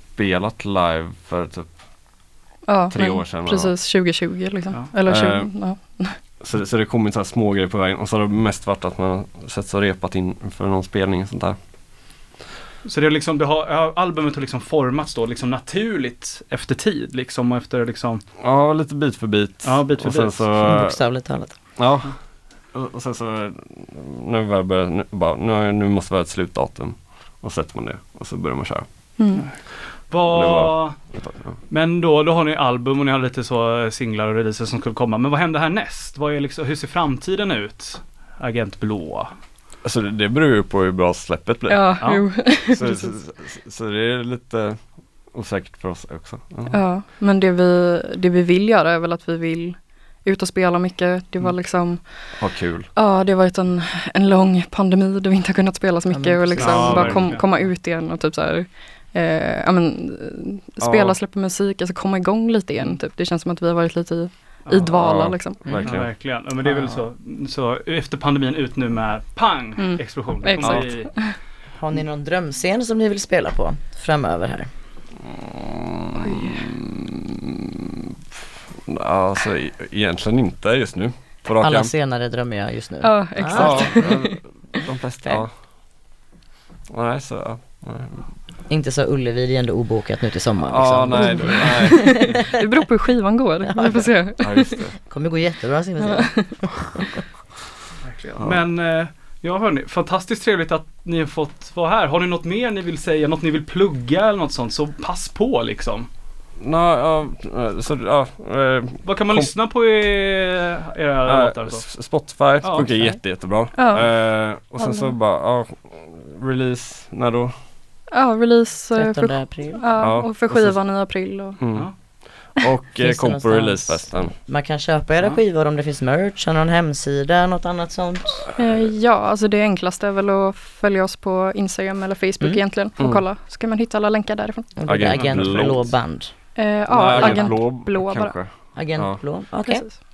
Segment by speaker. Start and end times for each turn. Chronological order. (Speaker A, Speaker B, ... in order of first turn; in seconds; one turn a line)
Speaker A: 0.1-1.7
Speaker B: 2.6-6.2
Speaker A: 2.9-3.8
Speaker A: 5.0-5.5
Speaker A: 6.4-11.6
Speaker C: 12.8-18.2
Speaker A: 18.4-21.0
Speaker C: 19.6-20.5
Speaker D: 20.6-21.6
Speaker A: 21.8-22.1
Speaker A: 22.7-28.8
Speaker B: 29.2-29.5
Speaker C: 30.1-30.9
Speaker A: 30.3-31.6
Speaker C: 31.7-39.3
Speaker A: 39.8-44.8
Speaker B: 41.7-43.1
Speaker A: 45.3-46.8
Speaker B: 46.7-52.1
Speaker A: 52.4-52.9
Speaker B: 52.9-65.6
Speaker D: 56.1-57.0
Speaker C: 56.6-57.5
Speaker A: 60.8-61.2
Speaker A: 64.8-66.1
Speaker D: 65.6-66.0
Speaker C: 65.8-71.1
Speaker D: 66.7-67.0
Speaker B: 69.8-71.3
Speaker A: 70.6-70.9
Speaker D: 71.8-74.7
Speaker A: 75.2-78.1
Speaker B: 76.2-76.7
Speaker A: 78.9-81.9
Speaker D: 81.6-84.1
Speaker B: 83.0-84.4
Speaker A: 83.5-85.5
Speaker A: 86.9-88.3
Speaker D: 88.7-92.6
Speaker A: 90.6-92.4
Speaker B: 91.1-94.8
Speaker D: 93.7-94.0
Speaker A: 94.4-95.0
Speaker D: 95.0-96.9
Speaker B: 96.0-97.0
Speaker C: 98.0-106.1
Speaker A: 106.6-109.5
Speaker C: 109.0-111.8
Speaker A: 111.2-117.5
Speaker C: 112.6-112.9
Speaker B: 113.7-114.1
Speaker D: 114.8-115.1
Speaker B: 118.1-121.6
Speaker D: 118.9-119.9
Speaker A: 120.0-120.8
Speaker A: 121.6-121.9
Speaker A: 122.4-124.3
Speaker D: 123.0-128.5
Speaker B: 128.6-134.7
Speaker A: 128.6-128.9
Speaker A: 133.0-133.2
Speaker D: 134.8-136.3
Speaker A: 134.8-135.9
Speaker C: 135.0-135.8
Speaker B: 136.5-138.3
Speaker A: 136.9-139.2
Speaker D: 137.1-137.5
Speaker D: 138.8-139.8
Speaker B: 139.6-140.0